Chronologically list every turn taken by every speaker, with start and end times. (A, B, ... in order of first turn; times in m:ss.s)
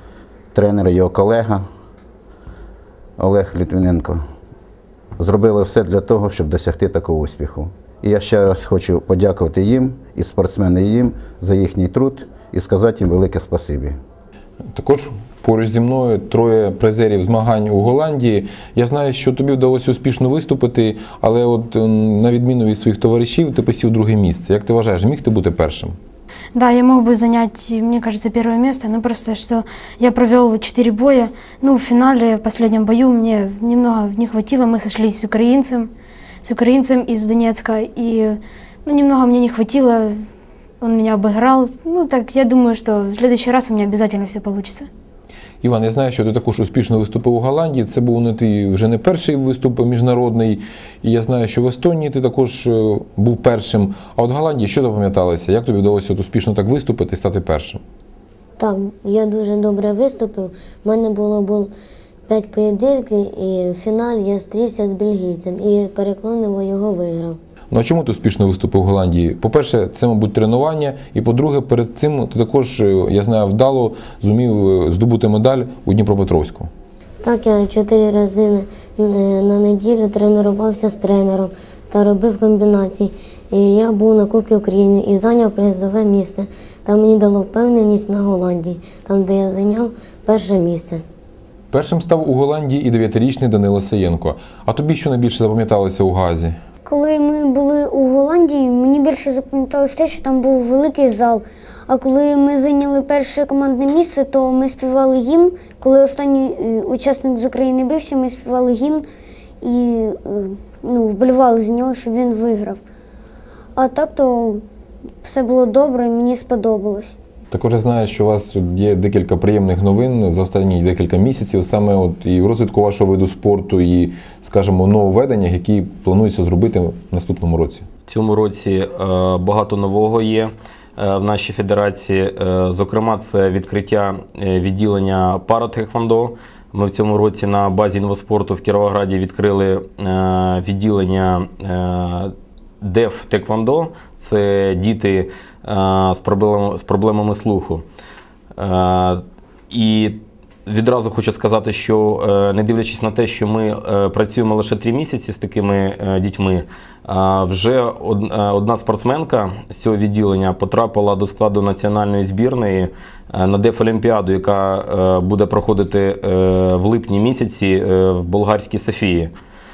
0:00.5-0:01.6 A
0:03.2-0:04.2 A
0:05.2-0:14.0 A
0:14.8-0:26.0 B
0:26.6-0:35.9 C
0:36.4-0:40.2 C
0:40.8-0:44.9 C
0:45.6-0:57.8 B
0:58.6-1:01.7 D
1:02.3-1:07.4 D
1:07.7-1:16.7 B
1:17.2-1:31.0 D
1:31.7-1:36.6 B
1:36.9-1:49.0 E
1:49.6-1:52.8 E
1:53.8-1:54.6 E
1:55.2-1:57.2 E
1:57.5-2:07.9 B
2:08.1-2:27.8 F
2:28.6-2:49.3 F